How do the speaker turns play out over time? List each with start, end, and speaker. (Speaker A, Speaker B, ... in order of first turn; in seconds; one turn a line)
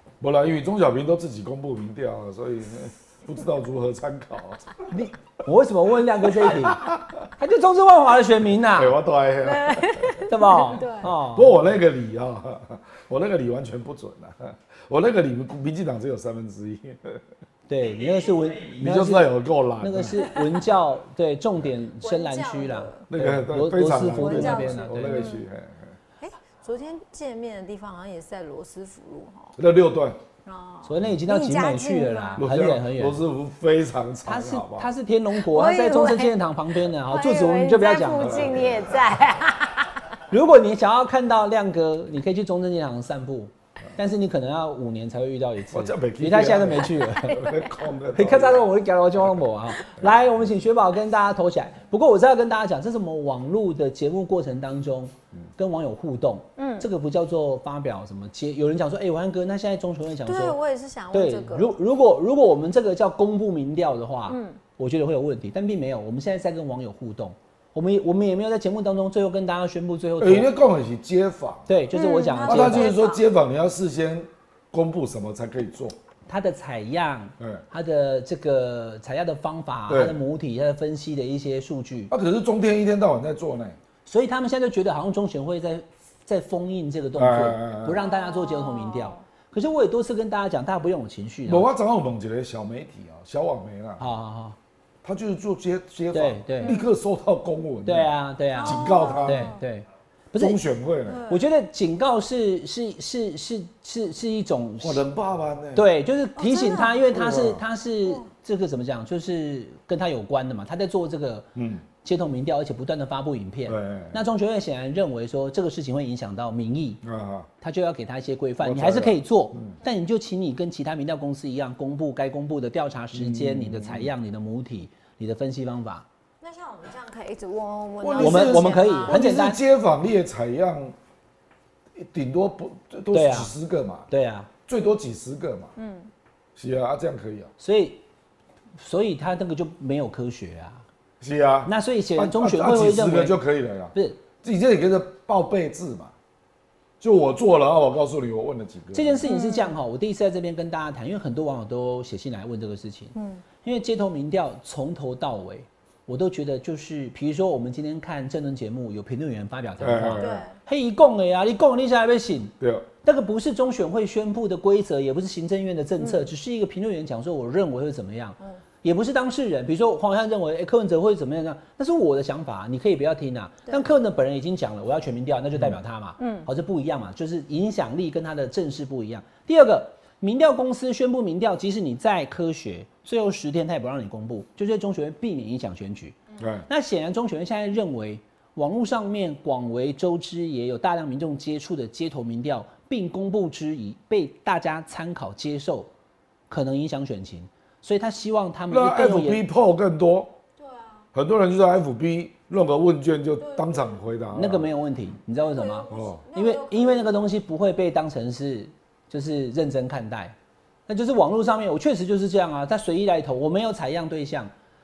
Speaker A: 0.2-4.8
Speaker B: 4.9-9.0
Speaker A: 6.3-7.3
Speaker A: 8.7-10.2
Speaker C: 9.4-11.1
Speaker B: 10.3-11.6
Speaker A: 11.1-17.2
Speaker B: 17.7-25.2
Speaker A: 18.8-20.2
Speaker C: 20.2-20.6
Speaker C: 22.0-23.1
Speaker A: 23.1-25.9
Speaker C: 23.9-25.5
Speaker C: 26.2-29.6
Speaker A: 29.6-30.2
Speaker C: 30.4-32.4
Speaker B: 30.9-33.2
Speaker A: 32.4-34.9
Speaker B: 34.3-38.6
Speaker C: 35.4-36.4
Speaker C: 36.9-39.9
Speaker A: 38.2-39.1
Speaker B: 40.3-47.5
Speaker A: 45.7-48.7
Speaker B: 48.1-60.6
Speaker C: 56.6-56.9
Speaker C: 60.2-61.8
Speaker B: 61.1-70.5
Speaker C: 64.3-64.6
Speaker A: 70.2-71.7
Speaker B: 71.7-73.0
Speaker C: 71.9-73.2
Speaker A: 72.5-76.0
Speaker B: 76.3-82.1
Speaker A: 79.9-80.2
Speaker A: 82.1-83.8
Speaker B: 84.1-91.7
Speaker A: 87.2-88.0
Speaker C: 88.0-89.2
Speaker A: 91.5-94.1
Speaker B: 94.0-94.6
Speaker A: 95.0-99.6
Speaker B: 96.1-96.8
Speaker C: 96.6-96.9
Speaker B: 97.8-100.6
Speaker C: 98.6-99.6
Speaker A: 100.4-101.3
Speaker C: 101.1-101.5
Speaker B: 101.3-105.0
Speaker A: 104.8-105.9
Speaker B: 105.8-111.5
Speaker C: 106.4-107.1
Speaker A: 107.1-107.6
Speaker A: 111.5-111.8
Speaker B: 112.0-117.0
Speaker A: 113.7-114.2
Speaker A: 117.0-117.5
Speaker B: 117.6-126.0
Speaker A: 118.6-119.8
Speaker A: 123.1-124.1
Speaker C: 126.4-129.2
Speaker A: 128.0-130.9
Speaker B: 128.2-129.6
Speaker A: 132.0-134.1
Speaker B: 133.1-133.5
Speaker B: 134.1-134.5
Speaker A: 134.7-135.7
Speaker C: 135.8-136.1
Speaker A: 136.6-137.5
Speaker B: 137.6-138.0
Speaker B: 138.8-140.8
Speaker A: 141.2-146.1
Speaker B: 141.7-143.4
Speaker B: 143.9-144.2
Speaker A: 147.0-149.3
Speaker B: 148.9-195.9
Speaker C: 149.2-149.8
Speaker C: 153.2-153.4
Speaker A: 159.8-160.4
Speaker C: 160.2-160.5
Speaker A: 162.6-162.9
Speaker C: 166.0-166.3
Speaker C: 176.2-176.5
Speaker A: 186.4-186.7
Speaker B: 196.5-199.4
Speaker A: 198.7-200.3
Speaker C: 200.6-201.1
Speaker A: 201.1-204.7
Speaker C: 203.4-204.0
Speaker B: 204.3-210.3
Speaker C: 205.4-207.3
Speaker A: 205.9-206.2
Speaker B: 210.9-214.5